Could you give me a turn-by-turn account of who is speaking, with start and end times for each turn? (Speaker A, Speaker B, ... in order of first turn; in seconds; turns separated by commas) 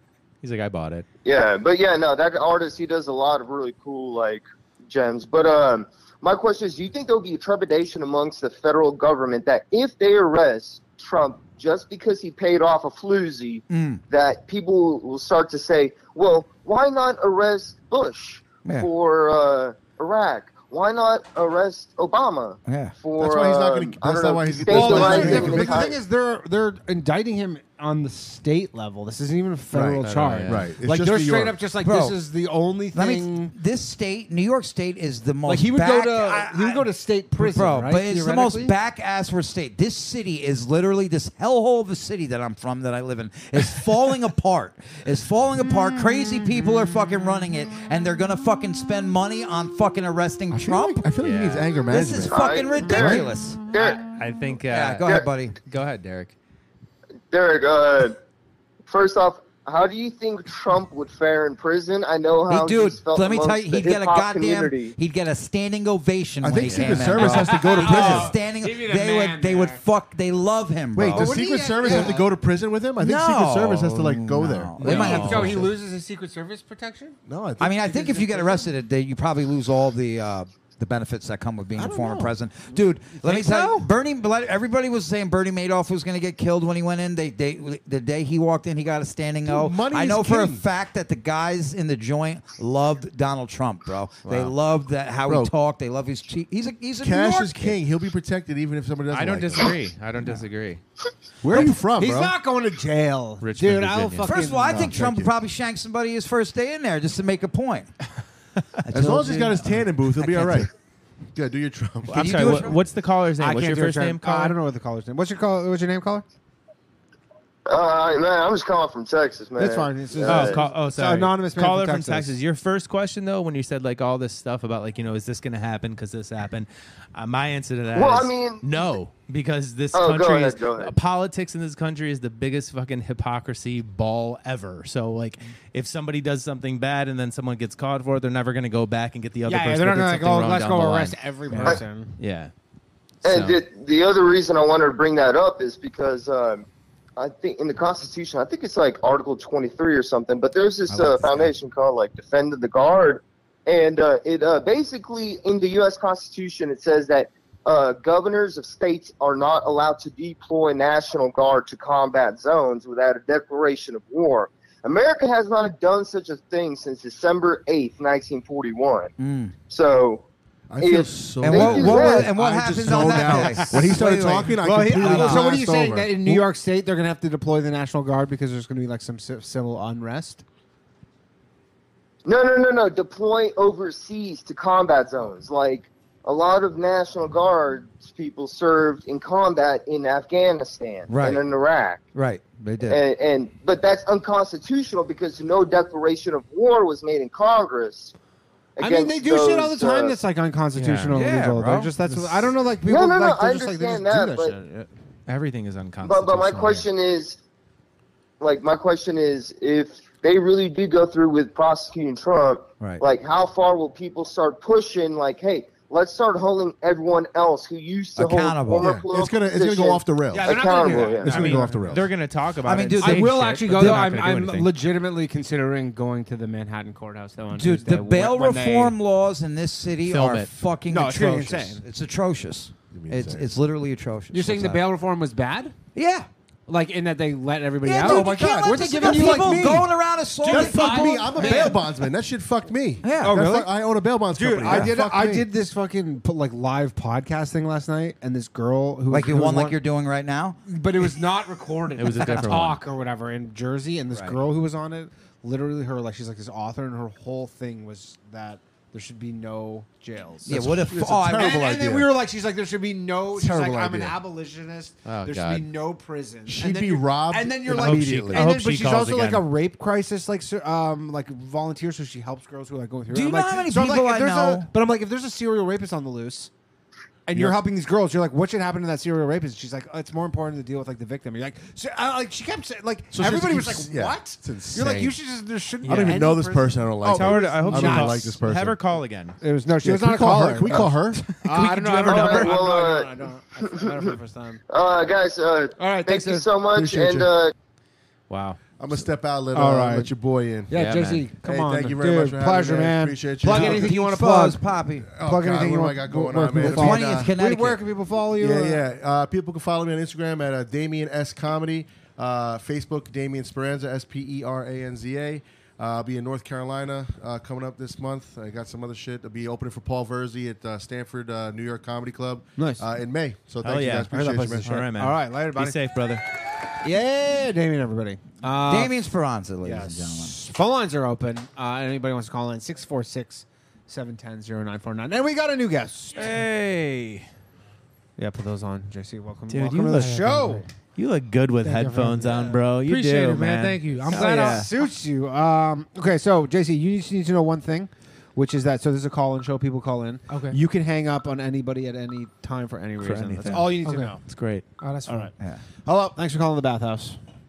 Speaker A: 0.4-1.1, Speaker B: 1.2-26.0, Speaker C: 13.7-14.0, Speaker C: 22.6-22.9, Speaker D: 23.2-25.9, Speaker E: 24.7-33.5, Speaker D: 29.7-31.6, Speaker A: 30.0-30.7, Speaker C: 31.8-32.2, Speaker C: 32.9-51.1, Speaker E: 35.5-38.7, Speaker D: 50.5-53.3, Speaker A: 51.2-51.7, Speaker C: 51.9-54.0, Speaker B: 52.2-54.0, Speaker A: 54.1-56.4, Speaker C: 54.6-55.6, Speaker B: 57.3-58.2, Speaker B: 58.9-65.0, Speaker C: 62.5-72.2, Speaker D: 66.4-68.3, Speaker E: 67.0-69.8, Speaker D: 70.9-75.7, Speaker E: 71.1-72.3, Speaker C: 73.0-75.7, Speaker A: 74.8-75.6, Speaker E: 74.8-77.2, Speaker D: 77.3-78.5, Speaker C: 77.6-97.8, Speaker E: 77.8-78.6, Speaker D: 81.8-82.3, Speaker E: 83.3-83.8, Speaker D: 89.5-90.6, Speaker A: 94.2-94.5, Speaker D: 97.0-99.7, Speaker A: 99.1-100.8, Speaker D: 101.4-102.3, Speaker E: 101.5-104.9, Speaker A: 103.4-104.3, Speaker C: 104.2-107.9, Speaker D: 104.6-105.3, Speaker C: 108.9-110.7, Speaker D: 108.9-110.7, Speaker D: 111.3-112.7, Speaker C: 112.1-112.8, Speaker A: 112.1-114.6, Speaker E: 113.4-116.2, Speaker B: 117.7-120.6, Speaker E: 119.6-122.3, Speaker A: 120.3-142.5, Speaker B: 127.9-128.7, Speaker B: 129.9-130.9, Speaker E: 139.5-142.2, Speaker A: 143.2-143.6, Speaker B: 143.2-146.7, Speaker B: 147.2-169.1, Speaker C: 150.9-151.5, Speaker C: 169.2-169.5, Speaker B: 169.7-170.2, Speaker D: 170.7-176.5, Speaker B: 170.8-172.3, Speaker C: 171.4-175.6, Speaker E: 173.3-173.9, Speaker E: 174.6-180.4, Speaker B: 182.2-192.0, Speaker C: 191.1-191.4, Speaker C: 192.2-193.0, Speaker B: 192.9-198.1, Speaker B: 198.8-200.2, Speaker E: 198.8-204.9, Speaker A: 200.8-201.2, Speaker C: 201.1-201.9, Speaker D: 202.1-202.5, Speaker B: 202.8-204.6, Speaker A: 205.3-206.9, Speaker B: 206.0-207.4, Speaker B: 208.4-221.5, Speaker C: 218.2-218.9, Speaker D: 218.7-222.1, Speaker E: 220.3-221.8, Speaker A: 221.2-224.7, Speaker C: 222.6-224.0, Speaker E: 223.0-228.9, Speaker C: 227.5-234.8, Speaker A: 230.1-230.5, Speaker E: 230.9-231.8, Speaker D: 232.9-233.5, Speaker E: 234.3-235.7, Speaker C: 235.9-236.3, Speaker E: 236.7-239.9, Speaker C: 237.8-241.8, Speaker D: 238.0-239.9, Speaker E: 240.4-241.8, Speaker D: 240.4-245.5, Speaker C: 243.0-243.4, Speaker E: 243.2-243.8, Speaker E: 244.3-249.8, Speaker C: 244.7-244.9, Speaker C: 249.1-250.6, Speaker E: 250.7-260.7, Speaker A: 252.0-252.8, Speaker C: 254.1-254.4, Speaker C: 260.4-262.1, Speaker D: 260.5-262.1, Speaker E: 261.3-276.5, Speaker D: 263.4-264.2, Speaker A: 265.1-265.7, Speaker D: 266.5-268.5, Speaker A: 267.7-269.4, Speaker C: 273.1-274.7, Speaker E: 277.3-288.3, Speaker D: 277.3-277.6, Speaker D: 283.1-285.1, Speaker D: 285.9-288.8, Speaker A: 285.9-286.2, Speaker A: 287.1-289.4, Speaker E: 289.4-294.6, Speaker D: 289.8-291.3, Speaker A: 291.4-292.6, Speaker B: 292.1-293.1, Speaker B: 294.7-297.5, Speaker E: 295.8-296.5, Speaker D: 296.7-297.3, Speaker A: 298.3-298.6, Speaker D: 298.8-300.7, Speaker E: 299.5-300.1, Speaker E: 300.7-304.6, Speaker A: 300.7-301.2, Speaker D: 301.4-304.0, Speaker C: 303.4-305.1, Speaker D: 305.0-307.3, Speaker E: 305.2-308.8, Speaker C: 306.6-307.8, Speaker D: 308.4-324.8, Speaker E: 322.6-322.8, Speaker A: 323.6-326.2, Speaker E: 324.1-325.8, Speaker E: 326.8-328.9, Speaker C: 328.6-330.4, Speaker E: 329.6-336.3, Speaker A: 336.1-337.3, Speaker E: 338.2-340.7, Speaker A: 339.5-340.4, Speaker F: 340.1-340.6, Speaker A: 341.0-344.7, Speaker E: 341.6-342.6, Speaker F: 342.8-344.7, Speaker E: 344.1-354.3, Speaker F: 350.3-350.6, Speaker A: 353.0-354.6, Speaker F: 353.8-354.2, Speaker F: 354.8-355.3, Speaker E: 355.1-355.3, Speaker E: 355.8-357.2